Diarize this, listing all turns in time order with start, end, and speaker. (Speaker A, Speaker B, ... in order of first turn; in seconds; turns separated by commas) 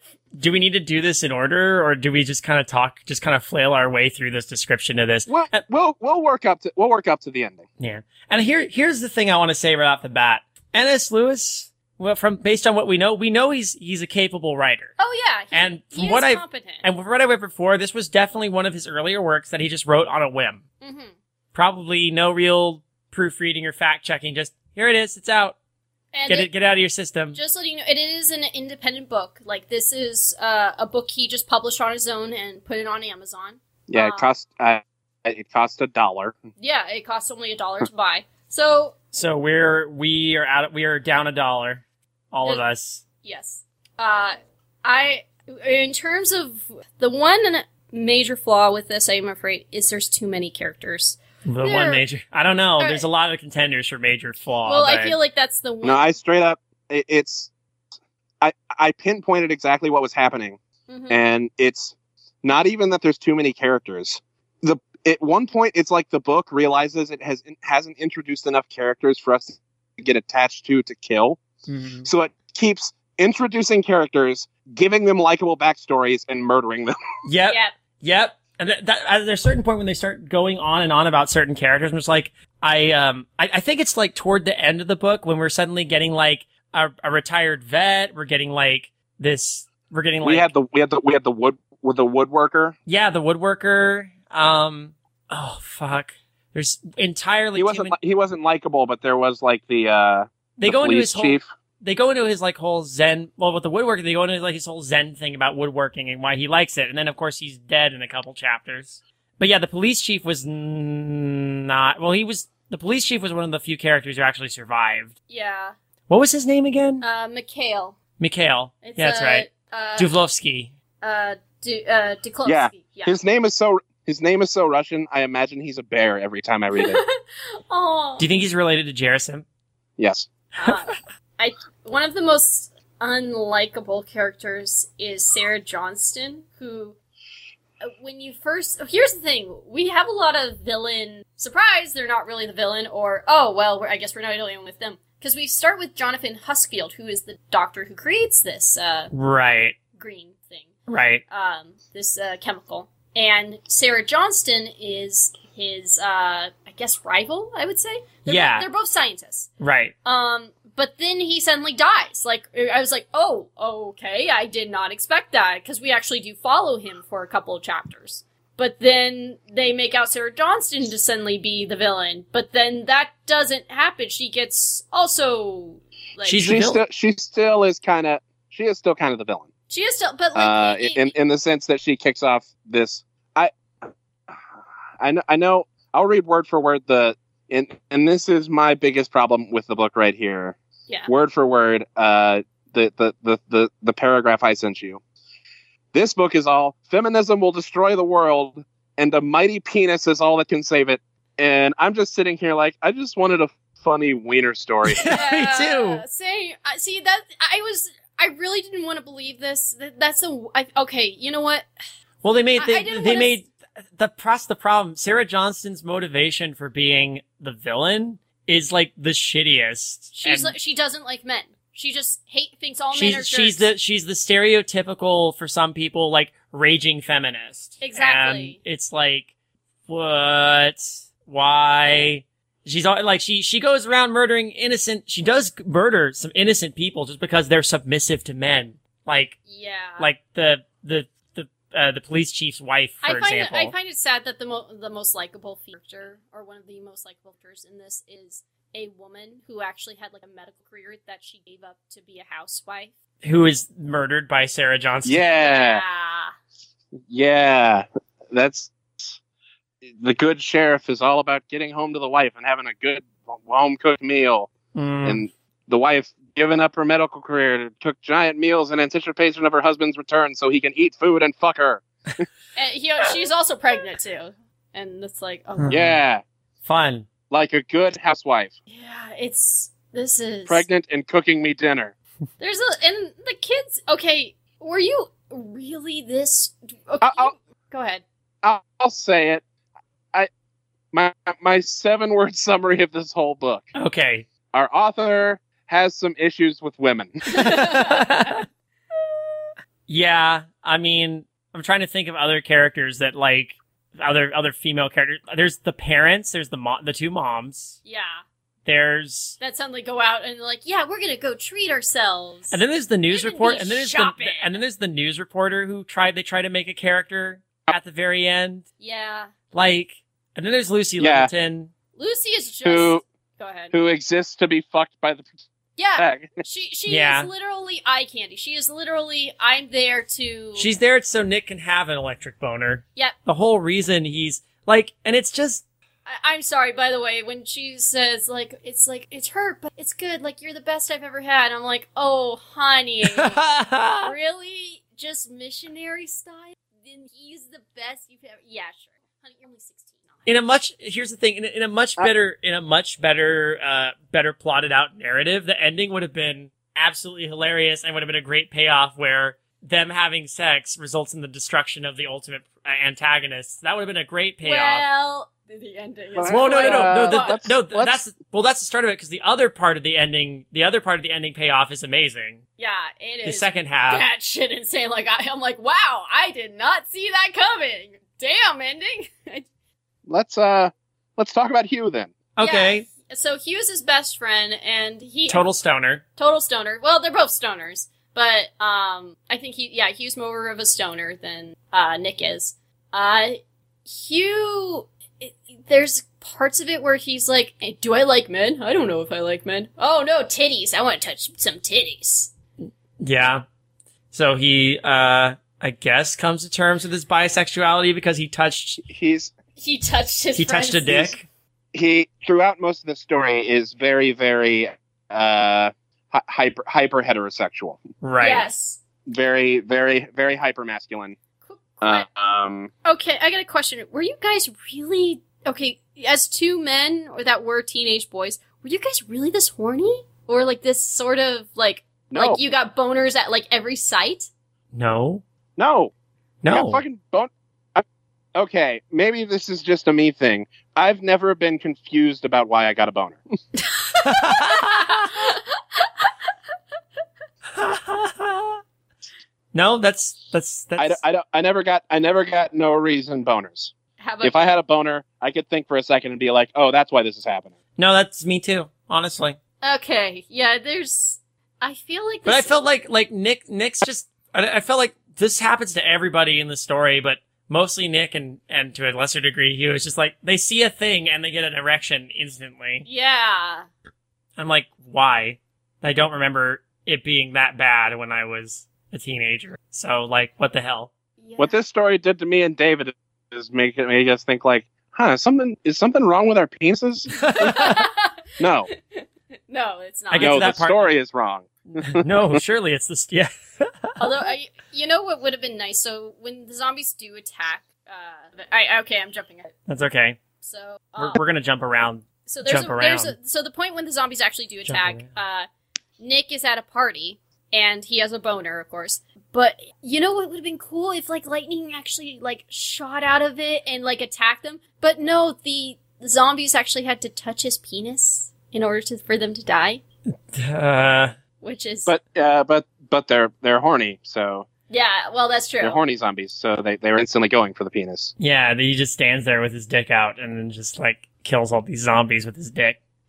Speaker A: 0.4-5.5, Speaker B: 5.3-7.6, Speaker A: 7.8-14.9, Speaker C: 15.0-16.9, Speaker A: 15.5-20.6, Speaker C: 20.8-21.1, Speaker A: 21.5-25.6, Speaker C: 26.1-26.5, Speaker A: 26.3-27.4, Speaker C: 27.3-34.3, Speaker B: 33.9-36.4, Speaker C: 36.6-39.0, Speaker A: 39.1-43.0, Speaker C: 43.2-52.0, Speaker A: 51.5-55.2, Speaker C: 52.8-53.0, Speaker C: 54.7-56.1, Speaker B: 55.8-57.5, Speaker B: 58.4-60.6, Speaker C: 60.9-61.2, Speaker B: 61.1-71.4, Speaker A: 71.7-72.1, Speaker B: 72.0-77.0, Speaker A: 77.3-90.5, Speaker C: 77.5-77.7, Speaker B: 90.2-92.8, Speaker A: 92.9-97.9, Speaker B: 97.6-101.4, Speaker A: 100.6-115.2, Speaker C: 115.3-115.7, Speaker A: 116.1-117.0, Speaker C: 117.0-118.0, Speaker A: 118.2-120.8, Speaker C: 118.8-120.2, Speaker C: 121.0-123.2, Speaker B: 122.5-127.0, Speaker C: 126.7-128.3, Speaker A: 128.2-129.4, Speaker B: 130.0-130.3, Speaker C: 130.6-137.0, Speaker C: 137.8-149.1, Speaker A: 149.1-149.8, Speaker C: 149.9-150.8, Speaker A: 150.9-151.2, Speaker C: 151.3-159.5, Speaker A: 158.3-158.7, Speaker A: 159.6-159.9, Speaker C: 160.0-176.4, Speaker A: 176.2-176.8, Speaker B: 176.4-179.5, Speaker C: 179.7-181.1, Speaker B: 180.3-183.9, Speaker B: 185.0-190.6, Speaker B: 191.1-195.0, Speaker B: 195.9-205.1, Speaker A: 204.9-206.0, Speaker C: 205.1-211.7, Speaker A: 212.2-220.5, Speaker C: 212.6-213.4, Speaker C: 220.2-223.7, Speaker A: 222.9-229.3, Speaker C: 227.8-228.6, Speaker A: 229.9-239.4, Speaker C: 239.5-240.1, Speaker A: 240.0-243.7, Speaker C: 243.0-252.9, Speaker A: 253.2-255.2, Speaker B: 255.1-255.8, Speaker C: 255.3-256.3, Speaker B: 257.1-259.2, Speaker B: 259.8-264.5, Speaker A: 264.8-265.2, Speaker B: 265.0-272.3, Speaker C: 272.6-275.9, Speaker A: 275.6-276.0, Speaker B: 275.7-276.2, Speaker A: 276.6-277.1, Speaker B: 277.3-278.5, Speaker C: 278.7-280.7, Speaker B: 280.5-281.9, Speaker C: 282.4-288.0, Speaker B: 287.0-287.3, Speaker B: 288.4-289.4, Speaker B: 290.9-293.7, Speaker A: 293.8-294.3, Speaker B: 294.5-297.2, Speaker A: 297.3-298.4, Speaker C: 297.3-298.4, Speaker A: 299.9-307.8, Speaker C: 307.9-308.2, Speaker A: 308.7-309.4, Speaker C: 309.4-312.6, Speaker A: 312.5-318.7, Speaker C: 313.1-314.6, Speaker C: 318.8-319.3, Speaker A: 319.5-321.7, Speaker B: 321.0-321.3, Speaker C: 322.0-323.7, Speaker B: 322.6-323.0, Speaker B: 323.7-325.4, Speaker C: 325.8-330.7, Speaker B: 326.0-326.4, Speaker A: 326.9-327.3, Speaker A: 330.6-335.6, Speaker C: 336.1-343.4, Speaker A: 343.1-344.1, Speaker C: 344.0-350.3, Speaker A: 350.3-364.9, Speaker C: 364.4-367.4, Speaker B: 366.2-368.0, Speaker A: 366.3-372.4, Speaker C: 372.6-379.5, Speaker A: 373.2-374.1, Speaker B: 380.1-382.1, Speaker A: 382.4-382.9, Speaker C: 382.4-385.5, Speaker A: 385.3-386.0, Speaker C: 386.2-402.3, Speaker A: 403.0-403.4, Speaker A: 404.1-408.8, Speaker B: 408.8-409.3, Speaker C: 409.6-411.1, Speaker A: 410.4-411.3, Speaker B: 411.7-417.9, Speaker A: 418.0-418.4, Speaker C: 418.2-418.8, Speaker B: 419.1-421.2, Speaker C: 421.4-422.1, Speaker B: 421.8-422.7, Speaker C: 422.9-434.3, Speaker B: 432.1-432.4, Speaker A: 434.7-435.2, Speaker B: 435.6-435.9, Speaker A: 436.4-436.8, Speaker B: 436.5-437.9, Speaker B: 438.4-443.2, Speaker C: 443.8-446.1, Speaker A: 444.0-445.2, Speaker A: 447.6-448.6, Speaker A: 449.5-451.0, Speaker B: 450.8-453.7, Speaker C: 454.0-454.5, Speaker B: 454.2-457.6, Speaker A: 457.8-459.4, Speaker C: 459.6-462.5, Speaker A: 462.3-472.9, Speaker C: 472.9-473.7, Speaker A: 474.4-480.9, Speaker C: 481.2-481.6, Speaker B: 481.4-487.5, Speaker A: 487.2-487.8, Speaker C: 487.3-490.5, Speaker B: 488.4-488.7, Speaker A: 490.1-490.8, Speaker B: 490.2-492.4, Speaker A: 491.8-494.0, Speaker C: 494.0-499.5, Speaker A: 499.7-500.2, Speaker C: 500.4-501.2, Speaker A: 501.0-503.1, Speaker C: 502.3-505.5, Speaker A: 504.7-505.1, Speaker C: 506.0-519.8, Speaker A: 520.3-521.1, Speaker C: 521.4-521.9, Speaker B: 521.9-524.5, Speaker C: 524.7-525.8, Speaker B: 525.6-528.1, Speaker A: 528.2-532.8